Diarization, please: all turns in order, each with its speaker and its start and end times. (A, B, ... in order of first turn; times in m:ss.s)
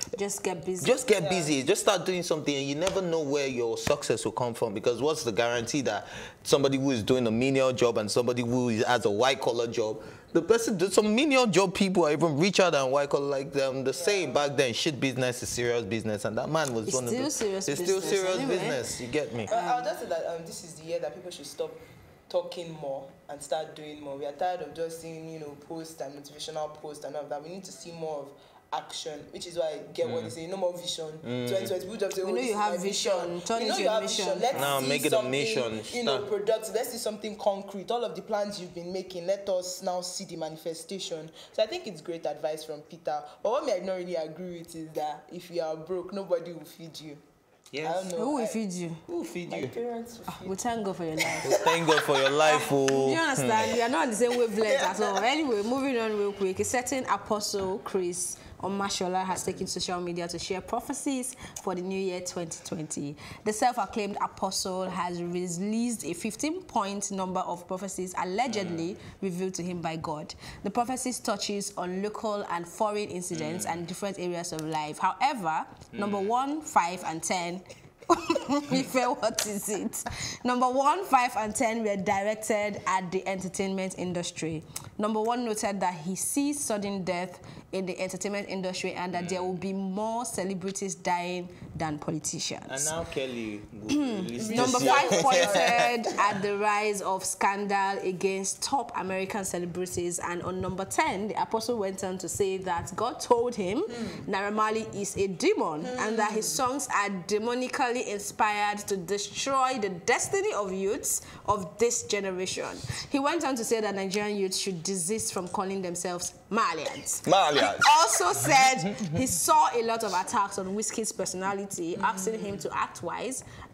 0:00.1-0:01.0 A
0:00.8-0:19.5 B
0:01.1-0:01.5 C
0:13.9-0:14.5 C
0:16.8-0:18.8 A
0:19.4-0:47.2 C
0:19.5-0:19.9 A
0:30.0-0:30.3 B
0:31.2-0:31.7 B
0:32.2-0:34.8 A
0:34.5-0:36.2 B
0:47.7-0:48.1 B
0:47.8-0:48.6 C
0:48.2-0:49.0 A
0:49.1-0:49.7 B
0:49.5-0:50.7 C
0:50.3-0:51.6 A
0:51.4-0:53.8 B
0:51.4-0:51.7 C
0:52.4-1:32.9 A
1:08.5-1:08.8 B
1:13.3-1:13.8 B
1:15.9-1:16.3 B
1:29.1-1:29.5 B
1:32.7-1:35.9 B
1:33.9-2:03.4 A
1:34.4-1:36.3 C
1:45.8-1:46.6 C
1:57.2-1:59.2 B
2:02.0-2:02.6 C